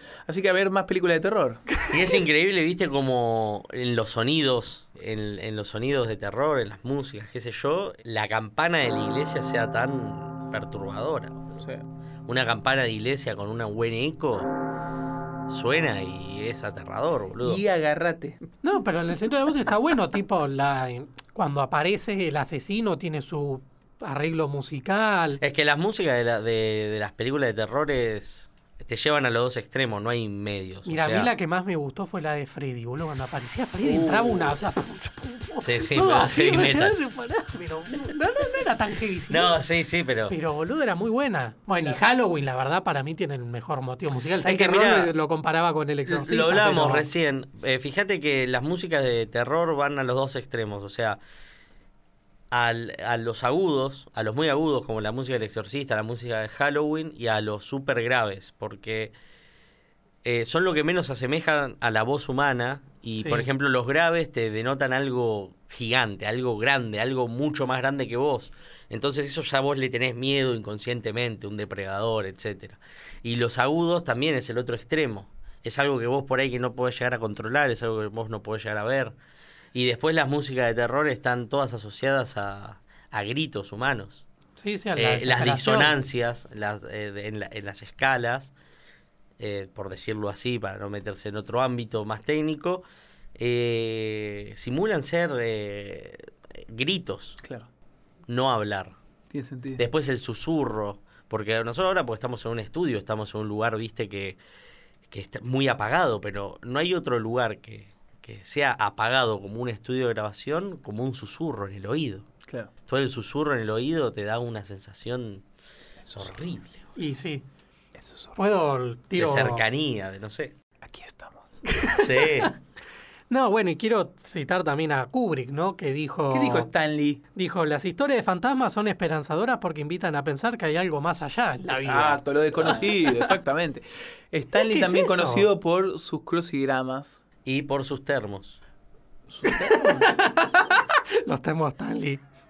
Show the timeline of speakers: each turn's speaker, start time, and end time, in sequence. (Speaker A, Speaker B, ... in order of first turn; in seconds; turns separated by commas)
Speaker A: 0.3-1.6, Speaker B: 1.9-11.5, Speaker A: 11.6-11.8, Speaker B: 12.3-14.5, Speaker B: 15.5-17.6, Speaker A: 17.4-18.4, Speaker C: 18.6-25.4, Speaker B: 25.4-31.3, Speaker C: 30.9-39.6, Speaker A: 33.8-34.5, Speaker B: 35.6-37.0, Speaker B: 39.3-40.3, Speaker C: 40.3-47.1, Speaker B: 44.4-45.1, Speaker B: 46.1-51.2, Speaker B: 52.5-59.1, Speaker B: 60.2-79.1, Speaker B: 79.7-84.2, Speaker C: 84.6-85.9, Speaker B: 85.0-88.5, Speaker B: 89.4-92.8, Speaker B: 93.4-97.4, Speaker A: 97.4-97.7, Speaker B: 98.3-99.0, Speaker A: 99.3-99.8, Speaker B: 99.8-104.4, Speaker B: 105.1-112.3, Speaker A: 112.5-112.7, Speaker B: 112.9-115.4, Speaker A: 116.0-116.4, Speaker B: 116.2-116.9, Speaker C: 117.0-117.5, Speaker A: 118.0-118.4, Speaker C: 118.4-119.6, Speaker B: 119.2-120.5, Speaker A: 120.8-121.6, Speaker C: 121.7-122.5, Speaker B: 121.9-122.5, Speaker C: 123.3-126.7, Speaker A: 126.3-127.2, Speaker C: 127.3-133.3, Speaker A: 131.7-137.2, Speaker B: 132.6-132.8, Speaker C: 134.6-135.5, Speaker B: 137.4-138.6, Speaker A: 139.3-140.2, Speaker C: 139.4-142.2